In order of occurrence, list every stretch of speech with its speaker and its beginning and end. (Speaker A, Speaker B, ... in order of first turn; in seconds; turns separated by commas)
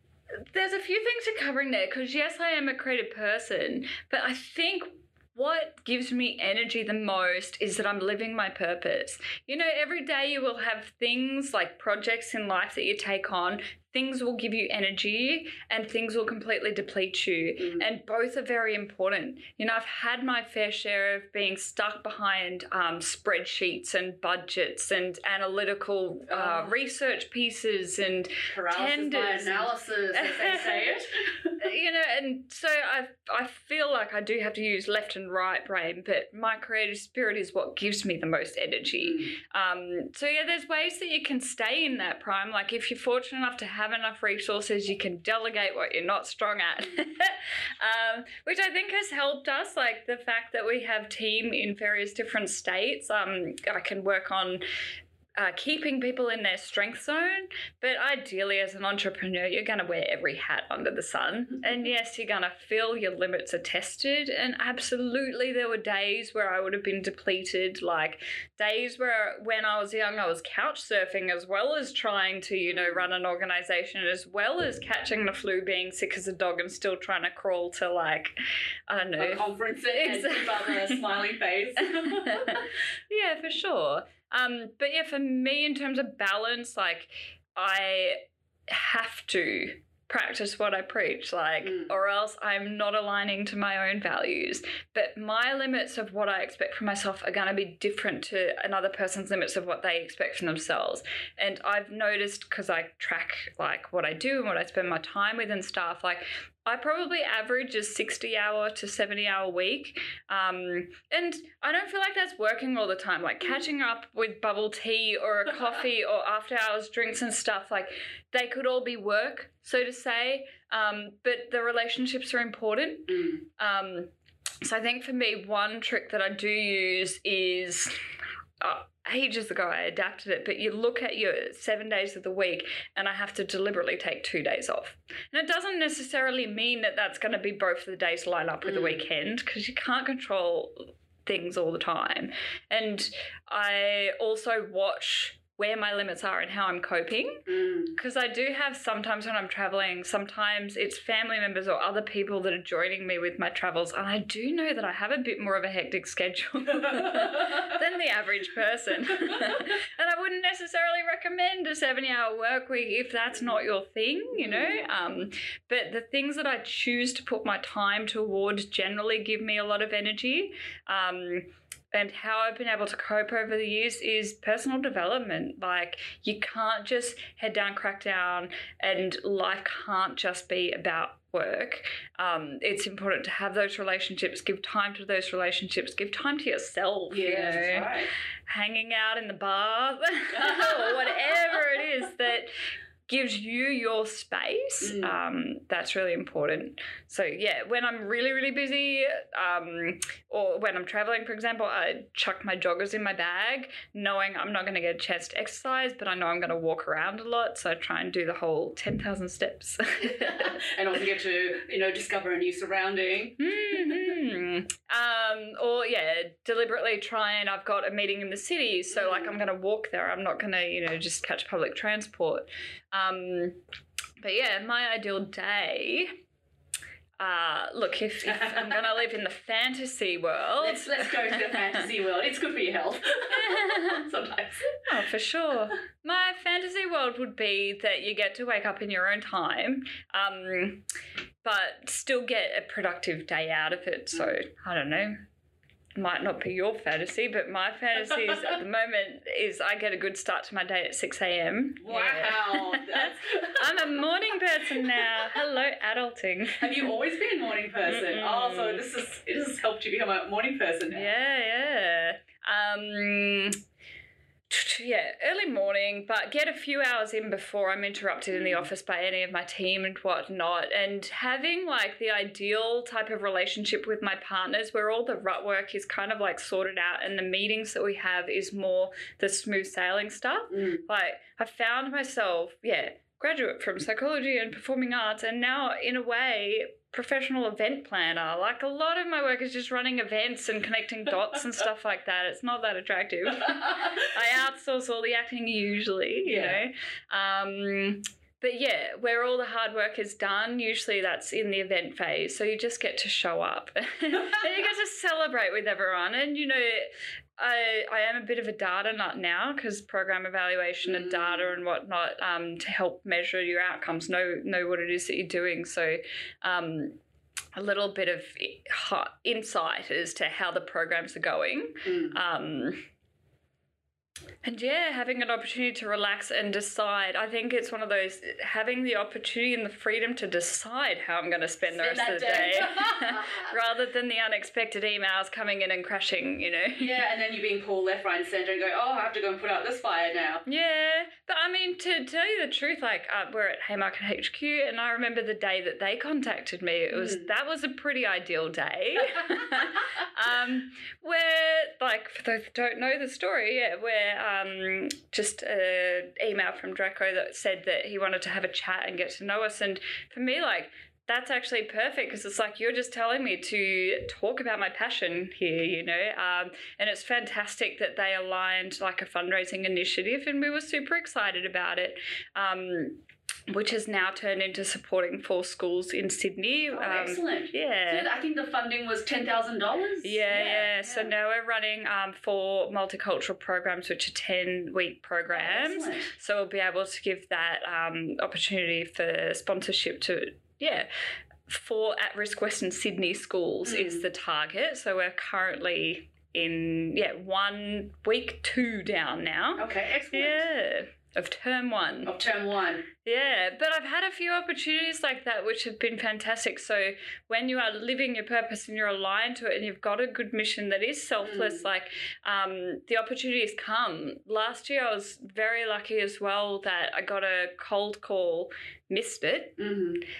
Speaker A: 0.4-31.0, Speaker B: 17.6-17.8, Speaker B: 26.3-26.7, Speaker B: 28.5-31.6, Speaker A: 31.6-54.6, Speaker B: 39.0-39.3, Speaker A: 55.4-78.3, Speaker B: 72.7-73.0, Speaker A: 78.9-81.0, Speaker B: 79.2-82.6, Speaker A: 81.8-128.0, Speaker B: 91.6-91.9, Speaker B: 123.1-123.4, Speaker A: 128.6-192.5, Speaker B: 138.6-139.1, Speaker B: 147.5-147.9, Speaker B: 156.9-157.6, Speaker B: 164.3-164.8, Speaker B: 187.1-188.1, Speaker B: 190.3-191.2, Speaker A: 193.1-210.6, Speaker B: 194.8-195.2, Speaker B: 210.0-213.9, Speaker A: 213.4-223.6, Speaker B: 218.9-219.3, Speaker A: 224.2-226.2, Speaker A: 227.2-231.8, Speaker B: 228.3-228.8, Speaker B: 230.6-234.8, Speaker A: 233.3-234.0, Speaker A: 234.9-240.8, Speaker A: 241.4-245.2, Speaker A: 245.9-256.9, Speaker B: 248.2-248.5, Speaker B: 251.8-254.1, Speaker B: 254.7-255.4, Speaker B: 256.6-261.1, Speaker A: 257.9-258.8, Speaker A: 260.9-263.6, Speaker A: 264.5-317.0, Speaker B: 268.3-268.7, Speaker B: 280.5-280.8, Speaker B: 293.3-294.1, Speaker B: 296.2-296.6, Speaker B: 310.8-311.5, Speaker A: 317.5-322.8, Speaker B: 321.8-322.2, Speaker A: 324.4-337.0, Speaker B: 331.7-333.5, Speaker B: 336.8-340.4, Speaker A: 340.4-378.1, Speaker B: 346.9-347.3, Speaker B: 376.7-381.1, Speaker A: 380.0-390.9, Speaker B: 385.3-386.1, Speaker A: 391.5-402.1, Speaker B: 393.6-394.1, Speaker B: 399.6-400.5, Speaker B: 402.0-402.9, Speaker A: 403.0-419.6, Speaker B: 411.2-411.7, Speaker B: 419.6-420.0